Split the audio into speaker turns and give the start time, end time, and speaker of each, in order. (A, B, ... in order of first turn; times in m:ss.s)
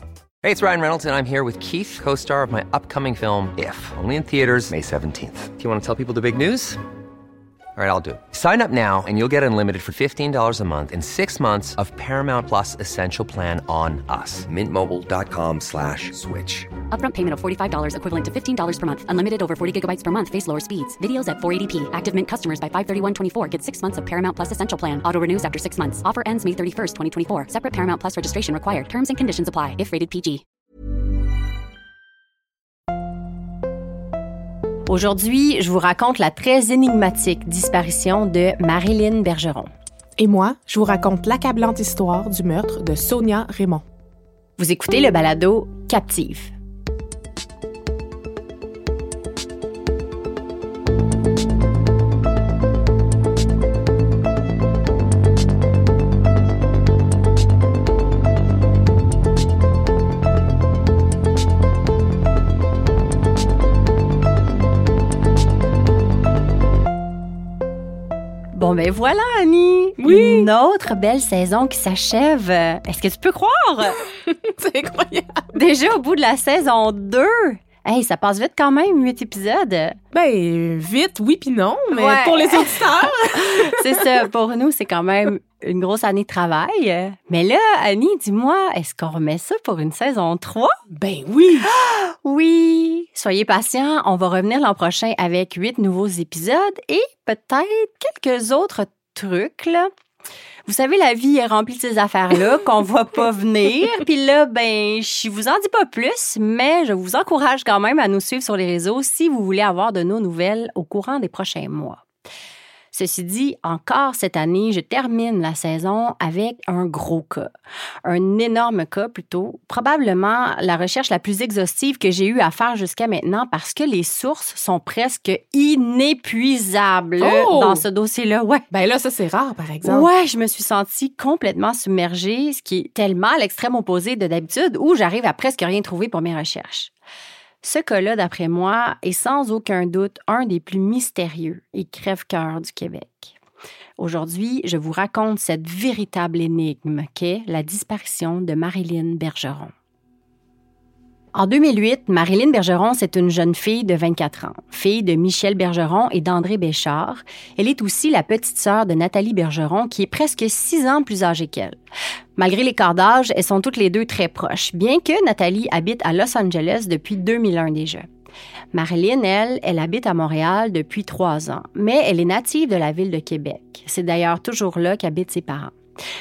0:00.4-0:06.8 A
0:07.8-0:16.7 A
0:16.9-0:30.4 B
0:34.9-0:39.7 C
0:40.2-0:43.8 D
0:44.6-0:46.5 C
1:08.5-1:14.0 C
1:10.0-1:10.5 D
1:14.0-1:15.5 D
1:15.5-1:20.0 C
1:20.1-1:24.2 D
1:21.9-1:22.7 C
1:23.3-1:30.7 C
1:30.9-1:31.7 D
1:31.6-1:39.9 C
1:40.7-1:52.0 C
1:52.9-1:57.5 C
1:58.0-2:08.6 C
2:07.2-2:07.8 D
2:08.7-2:10.1 D
2:09.8-2:16.9 C
2:17.6-2:23.4 C
2:24.0-2:29.7 C
2:31.3-2:41.8 C
2:42.4-2:48.1 C
2:48.7-2:55.7 C